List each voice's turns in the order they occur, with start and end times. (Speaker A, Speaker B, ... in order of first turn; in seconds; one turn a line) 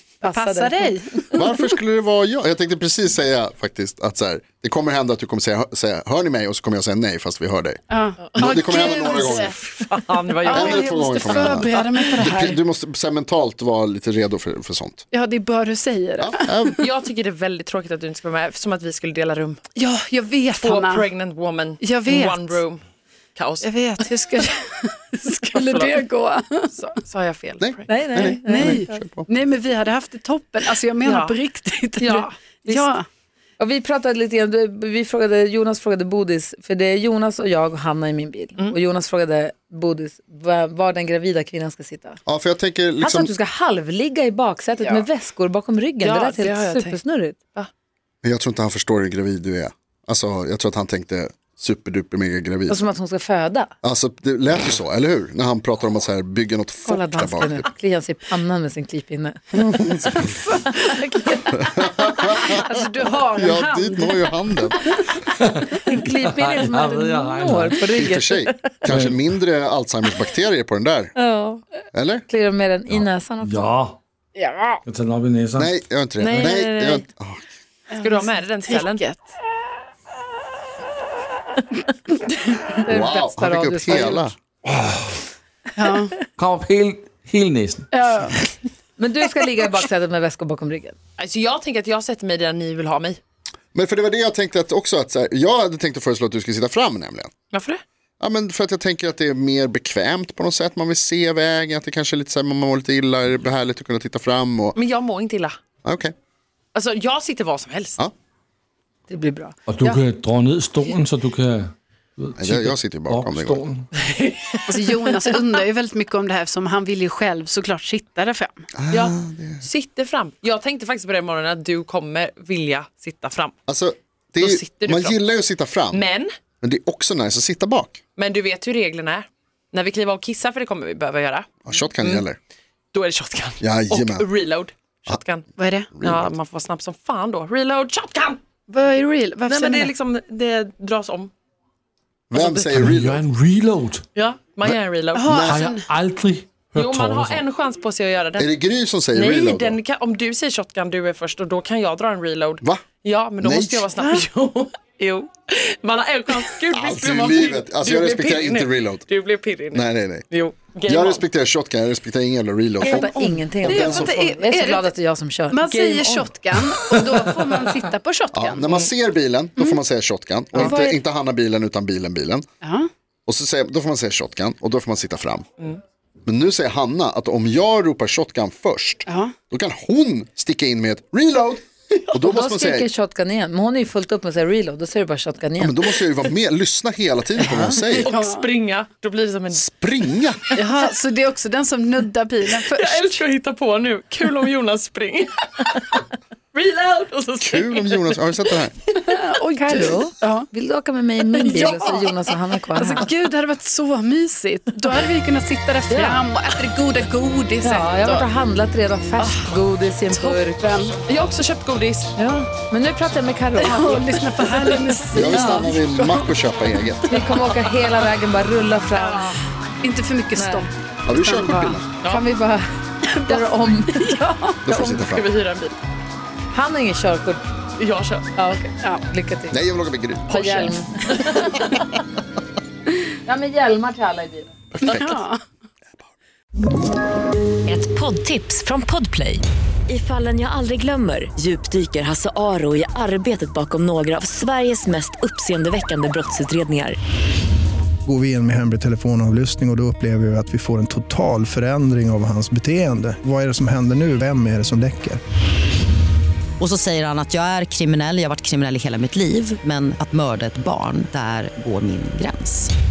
Speaker A: 0.2-1.2
Speaker B: 0.2-1.4
Speaker C: 1.3-7.8
Speaker A: 7.9-9.6
Speaker D: 8.2-11.8
Speaker C: 8.3-9.6
Speaker A: 10.4-12.6
Speaker C: 10.4-15.0
Speaker A: 15.1-16.7
Speaker C: 16.2-16.8
Speaker D: 16.8-19.6
Speaker A: 19.7-21.1
Speaker D: 20.6-22.8
Speaker A: 21.8-22.6
Speaker D: 23.3-23.7
Speaker A: 23.6-26.9
Speaker D: 25.5-26.0
Speaker D: 26.8-28.3
Speaker C: 27.6-29.3
Speaker B: 27.9-29.0
Speaker A: 28.3-33.0
Speaker D: 31.0-31.4
Speaker B: 32.0-33.0
Speaker B: 33.6-42.2
Speaker C: 42.2-43.3
Speaker B: 43.0-47.4
Speaker A: 44.8-45.0
Speaker D: 46.0-47.0
Speaker C: 48.2-52.8
Speaker B: 52.7-53.7
Speaker C: 53.8-57.7
Speaker B: 56.8-61.5
Speaker C: 59.8-60.3
Speaker C: 61.7-62.5
Speaker A: 62.2-64.2
Speaker C: 63.3-64.8
Speaker E: 65.3-68.0
Speaker B: 65.7-68.6
Speaker C: 68.0-71.1
Speaker E: 68.9-69.2
Speaker B: 71.2-71.6
Speaker C: 71.9-72.2
Speaker B: 72.3-73.7
Speaker E: 72.9-74.0
Speaker A: 74.3-74.8
Speaker E: 74.8-75.7
Speaker C: 75.5-77.5
Speaker D: 76.2-77.0
Speaker A: 77.9-79.3
Speaker D: 78.0-79.0
Speaker B: 82.8-84.3
Speaker C: 82.9-84.3
Speaker E: 84.7-85.1
Speaker A: 85.8-86.1
Speaker E: 86.3-87.9
Speaker A: 87.9-88.4
Speaker B: 89.0-91.0
Speaker D: 91.2-93.2
Speaker C: 93.7-97.3
Speaker D: 97.5-97.8
Speaker C: 98.2-104.8
Speaker D: 104.8-105.5
Speaker C: 105.8-106.1
Speaker D: 106.7-108.0
Speaker B: 109.1-110.0
Speaker E: 109.7-113.9
Speaker C: 112.4-113.6
Speaker D: 114.0-115.5
Speaker A: 114.7-118.6
Speaker C: 118.8-119.7
Speaker D: 118.9-123.5
Speaker C: 123.7-126.0
Speaker D: 124.4-125.2
Speaker D: 125.9-126.3
Speaker C: 126.6-128.0
Speaker D: 128.2-132.2
Speaker C: 131.6-132.4
Speaker D: 132.9-135.5
Speaker C: 133.6-134.3
Speaker A: 135.6-135.9
Speaker C: 135.9-136.3
Speaker D: 136.0-138.4
Speaker A: 138.7-139.9
Speaker D: 139.5-141.3
Speaker C: 142.3-143.2
Speaker E: 142.5-144.0
Speaker D: 144.1-145.3
Speaker A: 145.1-145.9
Speaker C: 145.3-145.6
Speaker E: 145.3-147.4
Speaker D: 146.7-148.5
Speaker C: 148.4-149.8
Speaker D: 149.1-161.2
Speaker C: 153.4-153.9
Speaker A: 153.9-154.2
Speaker C: 156.7-159.1
Speaker C: 159.7-160.3
Speaker C: 160.8-164.1
Speaker D: 162.8-163.4
Speaker B: 162.8-165.6
Speaker A: 163.7-164.9
Speaker A: 165.5-168.6
Speaker D: 165.7-167.3
Speaker C: 168.3-172.4
Speaker A: 170.5-171.0
Speaker A: 172.6-172.9
Speaker C: 173.3-175.4
Speaker C: 176.2-182.9
Speaker A: 179.1-179.3
Speaker B: 182.2-185.9
Speaker C: 185.6-188.1
Speaker D: 187.4-189.7
Speaker A: 188.0-188.4
Speaker C: 189.5-190.4
Speaker A: 190.6-193.0
Speaker D: 192.4-199.2
Speaker C: 197.4-198.7
Speaker A: 199.1-200.5
Speaker B: 199.6-203.1
Speaker D: 201.3-202.3
Speaker A: 201.5-201.9
Speaker A: 202.8-208.2
Speaker B: 205.9-206.2
Speaker B: 207.6-210.7
Speaker A: 210.1-211.0
Speaker D: 211.0-212.1
Speaker B: 212.2-214.0
Speaker A: 213.6-216.4
Speaker D: 214.1-214.9
Speaker C: 215.1-217.2
Speaker B: 215.2-215.7
Speaker B: 217.1-219.4
Speaker A: 219.8-221.8
Speaker B: 220.3-220.7
Speaker C: 221.1-221.9
Speaker B: 222.0-224.5
Speaker A: 223.1-224.6
Speaker C: 224.6-225.3
Speaker D: 224.7-225.8
Speaker B: 226.5-227.4
Speaker D: 227.8-228.5
Speaker B: 228.3-229.6
Speaker C: 229.5-230.4
Speaker B: 230.3-231.8
Speaker D: 230.3-231.5
Speaker B: 233.2-234.5
Speaker C: 234.7-235.2
Speaker A: 234.8-235.4
Speaker F: 237.7-246.9
Speaker G: 248.0-255.2
Speaker H: 256.6-262.7